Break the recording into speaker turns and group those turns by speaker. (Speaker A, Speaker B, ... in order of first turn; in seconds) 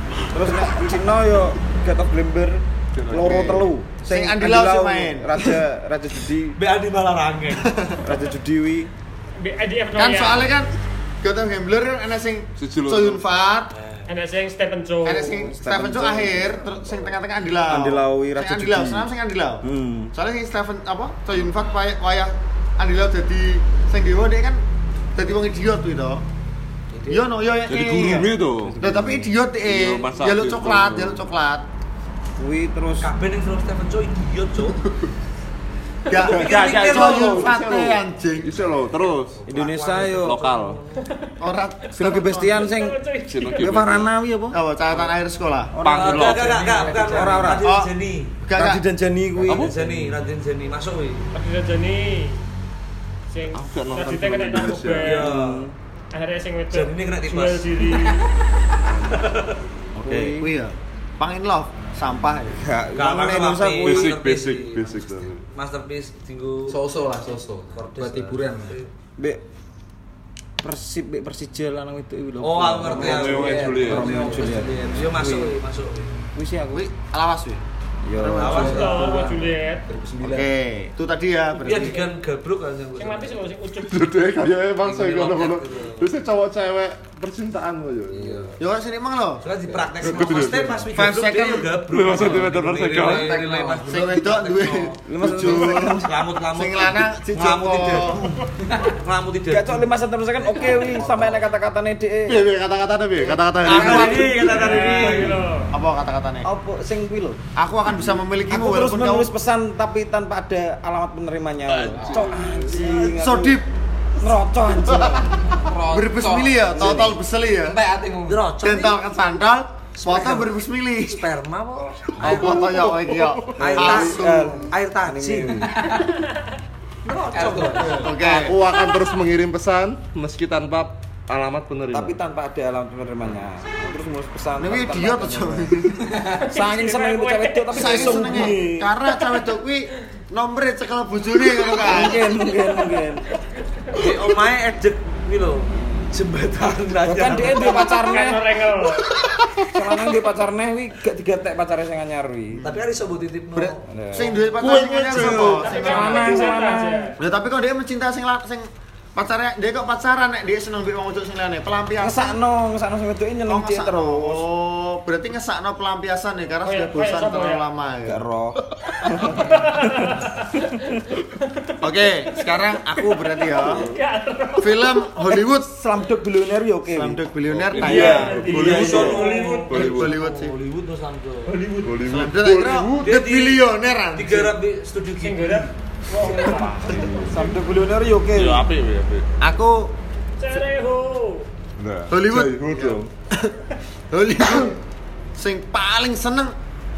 Speaker A: 0.3-6.6, 8.0-8.9, 15.2-16.5, 17.6-19.1, 19.6-20.1, 28.6-29.3, 32.4-33.1, 39.5-40.4, 42.0-43.0, 43.6-44.6, 45.7-47.7, 48.5-50.1, 55.2-55.7, 60.0-60.5, 62.5-64.2, 70.6-75.6, 76.3-76.9, 78.0-79.4, 95.0-96.1, 99.5-102.4, 103.9-104.1, 106.4-107.4, 108.5-113.6, 114.2-115.5, 116.8-117.1, 123.5-125.9, 131.9-135.7, 136.5-138.9, 141.8-143.2, 145.7-146.1, 147.0-148.7, 149.6-152.6, 153.8-157.1, 162.0-164.5, 168.1-169.4, 175.6-177.2, 186.2-188.7
Speaker B: 2.9-3.7, 12.6-13.2, 27.7-29.0, 29.6-31.2, 36.1-39.4, 40.0-40.8, 43.2-44.1, 45.8-46.5, 53.5-55.2, 63.8-65.4, 72.8-74.3, 83.8-88.5, 90.0-90.8, 91.7-93.4, 102.2-104.4, 111.7-113.0, 122.1-123.6, 128.2-132.2, 173.6-174.0, 177.5-180.1, 181.8-183.1, 186.4-187.3, 188.3-189.2, 191.8-193.1
Speaker C: 3.2-5.6, 7.6-8.0, 9.9-13.7, 15.0-24.6, 25.1-26.2, 27.1-31.6, 36.1-38.7, 41.4-42.6, 44.5-45.7, 47.6-47.9, 48.4-48.8, 60.0-62.6, 76.7-77.6, 78.2-78.8, 80.2-82.0, 88.6-89.4, 90.9-91.7, 93.9-98.4, 103.6-106.5, 107.5-109.3, 112.7-113.7, 114.8-117.8, 118.6-121.2, 122.2-124.7, 127.9-128.6, 134.6-136.1, 137.7-142.2, 152.5-152.8, 153.5-156.5, 157.2-162.4, 163.4-168.2, 171.8-173.9, 174.6-175.7, 176.8-179.2, 179.7-180.5, 182.0-184.5, 189.4-189.9, 192.1-193.6, 194.1-194.8, 195.3-196.5
Speaker D: 6.5-7.7, 13.7-14.1, 33.0-34.9, 36.1-37.5, 39.4-41.1, 46.0-48.4, 49.4-51.2, 55.0-55.6, 56.7-57.9, 58.9-59.6, 62.9-68.9, 72.4-76.1, 78.4-79.2, 81.5-83.5, 84.8-86.1, 89.4-101.4, 103.6-105.4, 118.2-119.0, 120.0-120.5, 121.1-122.7, 123.6-125.7, 127.0-128.2, 143.9-148.1, 152.6-154.8, 177.9-181.6, 183.0-185.7
Speaker E: 9.4-10.5, 14.1-15.4, 41.0-41.4, 42.5-43.8, 51.3-52.4, 53.3-55.3, 56.1-58.2, 78.5-79.8, 83.0-84.0, 104.4-105.7, 136.4-138.5, 139.1-139.4, 142.9-144.2, 147.7-149.1, 155.3-157.2, 166.6-167.6, 169.2-175.1, 177.8-180.1, 181.5-182.1, 185.2-187.0, 190.4-191.5
Speaker F: 26.9-27.2, 45.9-47.4, 66.7-68.8, 72.9-74.8, 78.3-80.5, 88.1-88.6, 89.6-90.7, 92.8-93.9, 98.6-98.9, 100.4-101.4, 112.0-112.3, 115.5-118.4, 125.7-126.2, 127.3-128.2, 136.0-136.4